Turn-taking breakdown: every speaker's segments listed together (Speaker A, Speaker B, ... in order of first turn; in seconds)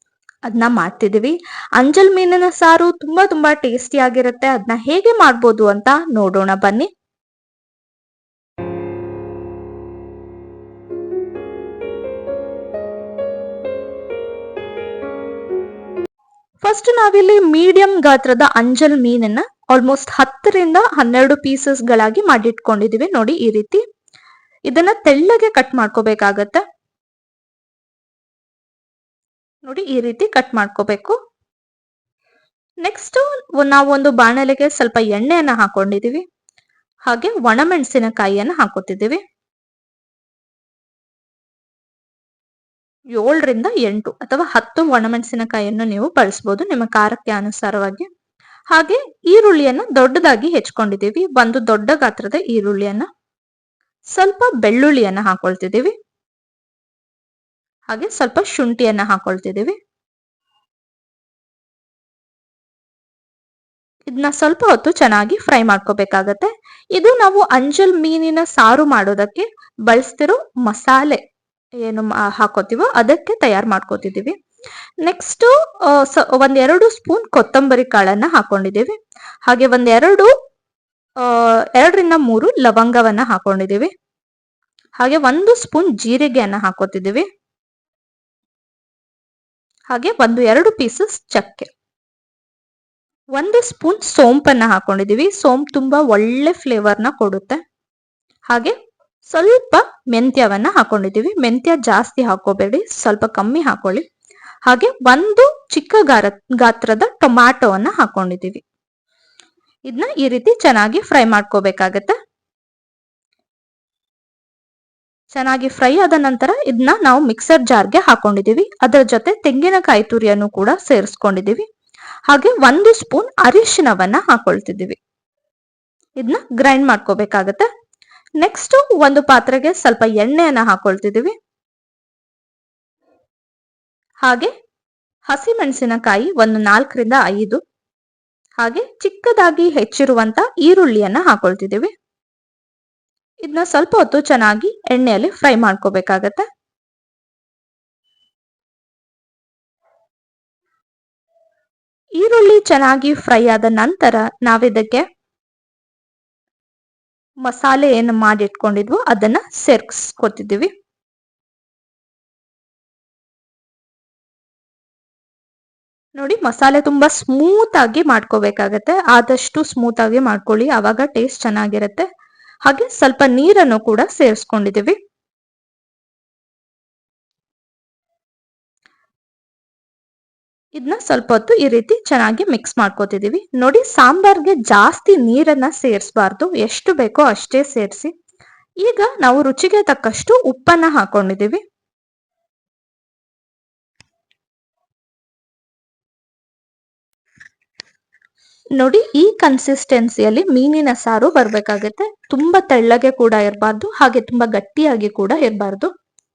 Speaker A: 0.5-6.9, 16.6-23.8, 24.7-26.6, 29.6-31.2, 32.8-36.2, 37.1-39.2, 43.1-48.1, 48.7-53.1, 54.1-55.9, 57.9-59.8, 64.1-71.2, 71.8-74.4, 75.0-80.3, 81.2-83.9, 85.0-87.3, 89.9-91.7, 93.3-97.6, 99.3-104.0, 104.7-108.6, 109.9-112.2, 115.3-121.7, 122.3-125.0, 126.2-127.7, 128.4-131.3, 134.2-134.5, 135.3-137.6, 138.6-141.9, 143.4-146.4, 152.2-155.1, 157.4-160.7, 166.2-172.1, 172.7-175.0, 180.8-188.1, 188.8-191.6, 198.8-205.9